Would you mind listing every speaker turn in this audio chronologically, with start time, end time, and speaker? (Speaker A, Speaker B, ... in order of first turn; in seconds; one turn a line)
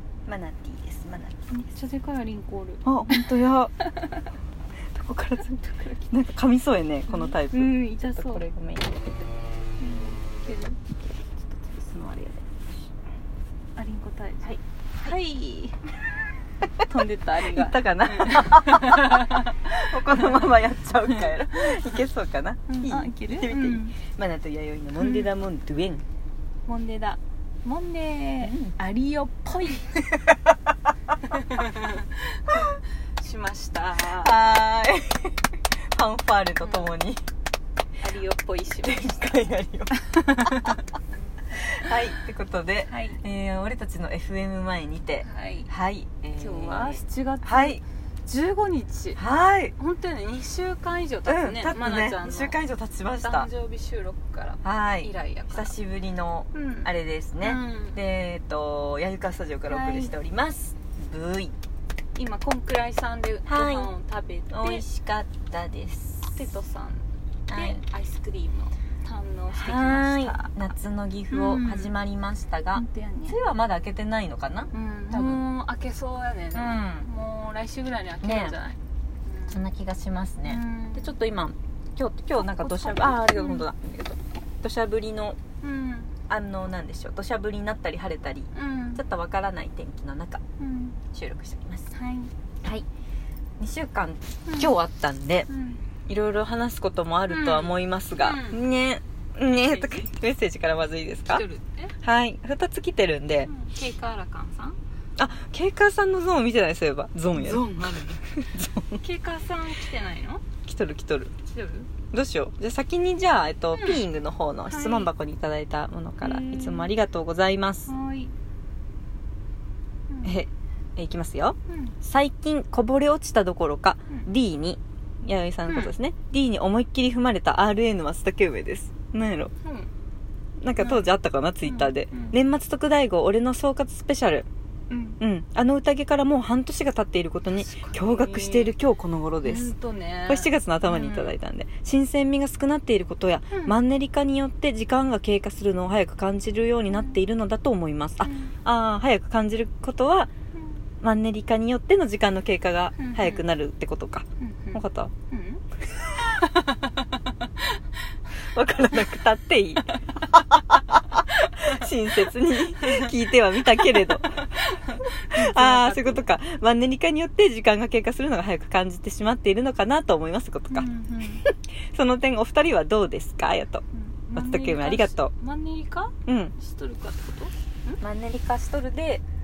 Speaker A: 0.2-1.4
Speaker B: 1.5-3.2
Speaker A: 2.8-3.7
Speaker A: 4.9-9.1
Speaker B: 7.1-8.4
Speaker B: 9.8-10.8
Speaker A: 11.4-12.5
Speaker B: 13.8-15.8
Speaker A: 14.4-15.1
Speaker B: 16.8-20.5
Speaker A: 17.4-26.0
Speaker B: 21.1-22.0
Speaker B: 22.7-24.0
Speaker B: 25.0-25.3
Speaker B: 26.7-30.1
Speaker A: 28.4-28.7
Speaker A: 29.9-30.3
Speaker B: 31.3-34.4
Speaker A: 34.0-37.2
Speaker B: 36.6-36.9
Speaker B: 38.0-39.4
Speaker A: 38.8-40.8
Speaker B: 39.9-40.9
Speaker A: 41.5-47.8
Speaker B: 42.9-43.2
Speaker B: 45.2-45.7
Speaker B: 46.4-49.2
Speaker A: 49.2-49.7
Speaker B: 49.8-52.5
Speaker A: 51.3-53.5
Speaker B: 53.2-55.8
Speaker A: 54.6-61.5
Speaker B: 56.5-58.0
Speaker B: 59.7-60.1
Speaker B: 62.1-64.8
Speaker A: 63.5-63.9
Speaker A: 64.5-66.4
Speaker B: 66.3-70.5
Speaker A: 67.5-67.8
Speaker A: 69.5-75.4
Speaker B: 71.3-71.9
Speaker B: 72.7-73.4
Speaker B: 74.7-79.6
Speaker A: 76.5-77.1
Speaker A: 78.2-78.6
Speaker A: 79.5-85.4
Speaker B: 80.4-81.2
Speaker B: 82.3-83.7
Speaker B: 85.6-86.1
Speaker A: 86.3-90.4
Speaker B: 88.5-89.0
Speaker B: 90.6-91.0
Speaker A: 91.1-91.9
Speaker B: 91.9-92.3
Speaker A: 93.6-95.5
Speaker B: 94.5-94.7
Speaker B: 95.5-95.8
Speaker A: 96.0-101.4
Speaker B: 97.3-98.6
Speaker B: 99.5-100.1
Speaker B: 101.3-101.9
Speaker A: 102.0-103.5
Speaker B: 103.5-104.8
Speaker A: 105.2-109.0
Speaker B: 107.3-108.2
Speaker B: 108.9-110.5
Speaker A: 110.6-111.3
Speaker B: 111.5-111.9
Speaker A: 112.1-117.9
Speaker B: 113.7-114.0
Speaker B: 114.7-115.1
Speaker B: 116.2-116.9
Speaker B: 117.9-118.3
Speaker B: 120.1-120.4
Speaker A: 120.2-129.5
Speaker B: 121.7-121.9
Speaker B: 125.7-126.0
Speaker B: 129.6-129.9
Speaker A: 130.6-134.5
Speaker B: 130.8-131.1
Speaker B: 131.6-132.4
Speaker B: 134.9-135.2
Speaker A: 135.2-139.7
Speaker B: 137.5-138.7
Speaker B: 139.4-141.3
Speaker A: 140.3-150.3
Speaker B: 143.5-143.8
Speaker B: 148.2-148.5
Speaker B: 150.6-150.8
Speaker A: 151.0-155.1
Speaker B: 153.0-153.5
Speaker B: 154.4-157.8
Speaker A: 158.5-164.5
Speaker B: 159.8-160.5
Speaker B: 161.6-161.9
Speaker B: 162.8-166.3
Speaker A: 165.3-170.9
Speaker B: 170.7-171.4
Speaker A: 171.4-173.8
Speaker B: 173.9-178.0
Speaker A: 174.4-175.3
Speaker A: 176.2-176.6
Speaker A: 178.0-179.2